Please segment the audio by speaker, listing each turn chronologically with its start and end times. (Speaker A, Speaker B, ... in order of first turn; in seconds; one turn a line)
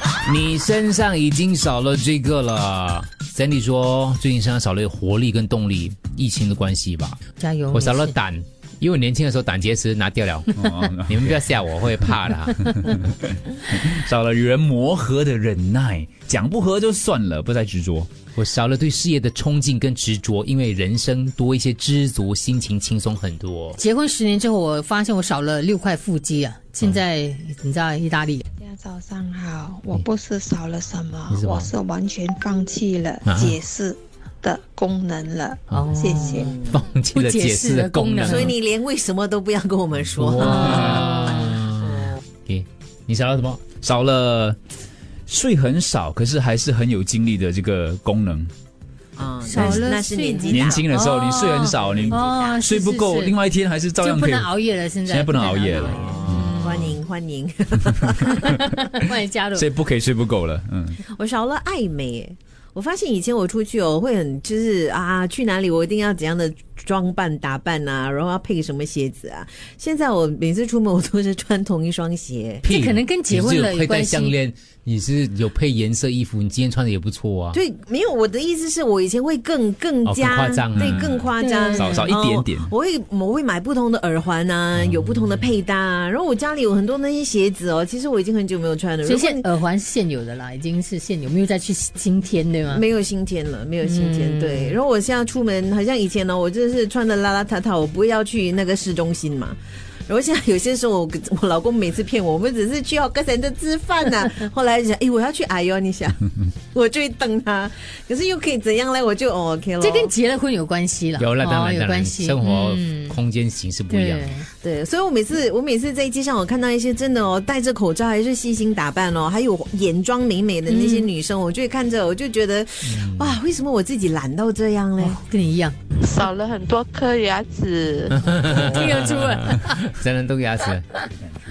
Speaker A: 0.3-7.2
Speaker B: 7.4-8.2
Speaker A: 7.7-12.6
Speaker C: 10.5-11.4
Speaker C: 12.7-18.1
Speaker A: 18.4-23.8
Speaker B: 23.8-28.4
Speaker D: 28.6-36.5
Speaker A: 31.3-31.7
Speaker A: 33.2-33.6
Speaker A: 35.7-38.5
Speaker B: 35.7-36.5
Speaker E: 36.5-36.8
Speaker B: 37.1-38.5
Speaker E: 38.2-41.1
Speaker A: 40.1-43.8
Speaker B: 40.5-41.5
Speaker E: 41.8-42.2
Speaker C: 43.8-44.6
Speaker C: 45.3-48.5
Speaker E: 49.2-50.9
Speaker B: 49.4-53.4
Speaker C: 49.6-49.9
Speaker C: 50.5-56.7
Speaker E: 51.6-52.7
Speaker B: 54.0-56.7
Speaker E: 55.8-58.7
Speaker B: 58.2-59.7
Speaker C: 59.5-61.0
Speaker E: 61.1-72.6
Speaker B: 72.6-74.4
Speaker A: 72.6-77.6
Speaker E: 77.5-89.5
Speaker A: 80.0-81.1
Speaker C: 80.8-82.7
Speaker B: 81.4-82.1
Speaker B: 89.0-92.8
Speaker E: 92.7-110.1
Speaker B: 93.8-94.8
Speaker B: 109.8-113.2
Speaker A: 111.2-114.3
Speaker B: 113.9-114.5
Speaker E: 114.6-125.2
Speaker B: 120.7-121.1
Speaker A: 122.9-123.4
Speaker B: 125.0-125.8
Speaker F: 126.0-128.6
Speaker A: 128.3-130.8
Speaker B: 128.5-129.8